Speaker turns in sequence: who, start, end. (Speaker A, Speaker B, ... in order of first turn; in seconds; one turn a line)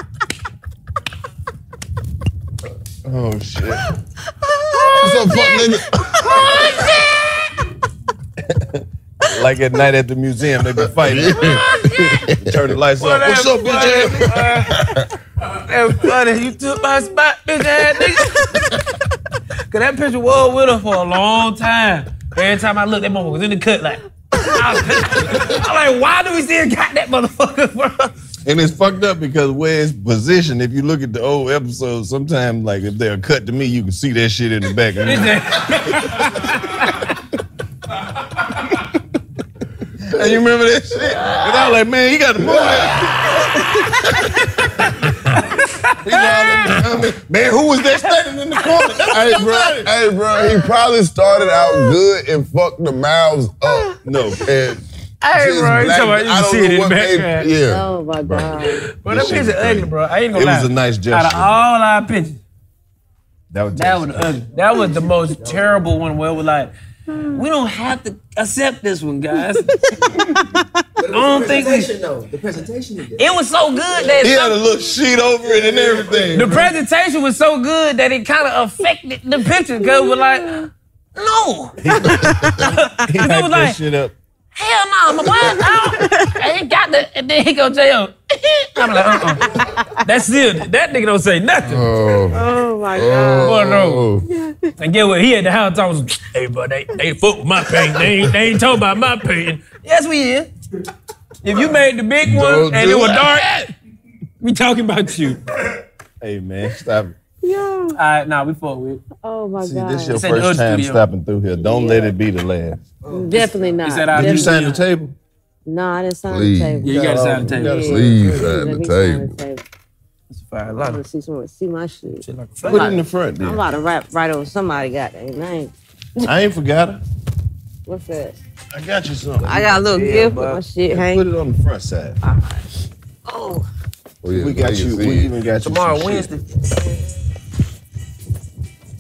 Speaker A: 3.0-3.8
Speaker B: 4.6-5.6
Speaker C: 4.8-5.4
Speaker D: 5.0-6.9
Speaker C: 6.2-7.4
Speaker B: 6.4-6.7
Speaker A: 8.4-11.7
Speaker D: 10.9-12.8
Speaker C: 11.2-12.3
Speaker A: 12.4-14.2
Speaker C: 13.0-18.7
Speaker D: 14.2-15.1
Speaker C: 19.7-28.1
Speaker A: 28.4-35.8
Speaker C: 35.0-37.1
Speaker A: 40.1-43.6
Speaker D: 40.1-40.4
Speaker D: 41.0-41.5
Speaker D: 42.4-43.4
Speaker C: 45.4-46.8
Speaker A: 46.0-49.9
Speaker D: 46.1-46.9
Speaker D: 49.1-58.8
Speaker A: 54.0-54.5
Speaker C: 55.2-57.5
Speaker B: 57.7-58.9
Speaker C: 59.0-62.4
Speaker A: 59.0-61.5
Speaker A: 63.5-64.4
Speaker C: 63.8-66.7
Speaker B: 67.1-67.4
Speaker C: 67.3-70.1
Speaker B: 69.6-70.0
Speaker E: 71.0-73.2
Speaker C: 71.1-71.9
Speaker C: 73.2-74.6
Speaker A: 74.2-76.7
Speaker E: 75.5-76.4
Speaker C: 76.3-83.8
Speaker B: 79.8-80.7
Speaker A: 81.8-84.1
Speaker B: 82.0-82.6
Speaker D: 82.4-82.6
Speaker C: 84.5-91.9
Speaker B: 85.3-86.4
Speaker B: 89.5-90.0
Speaker D: 91.6-92.4
Speaker B: 92.3-93.7
Speaker D: 92.9-94.2
Speaker C: 93.4-94.1
Speaker B: 94.4-94.7
Speaker C: 94.8-100.5
Speaker C: 101.4-103.7
Speaker D: 102.2-103.4
Speaker C: 104.4-105.4
Speaker A: 106.2-107.1
Speaker B: 107.4-108.0
Speaker C: 107.9-109.0
Speaker B: 109.2-110.2
Speaker A: 109.6-112.8
Speaker C: 110.1-111.0
Speaker B: 111.6-112.1
Speaker B: 113.1-114.8
Speaker C: 113.3-114.8
Speaker A: 114.1-115.1
Speaker B: 115.7-119.6
Speaker D: 116.3-116.9
Speaker C: 116.8-118.1
Speaker A: 116.8-118.4
Speaker D: 117.7-119.4
Speaker C: 120.3-121.0
Speaker B: 120.8-125.7
Speaker C: 122.2-123.0
Speaker A: 122.6-123.6
Speaker A: 126.2-127.0
Speaker B: 127.9-128.4
Speaker A: 128.7-132.2
Speaker B: 129.4-131.2
Speaker B: 132.2-132.6
Speaker C: 133.3-133.7
Speaker D: 134.2-135.3
Speaker A: 134.3-136.3
Speaker C: 135.6-136.4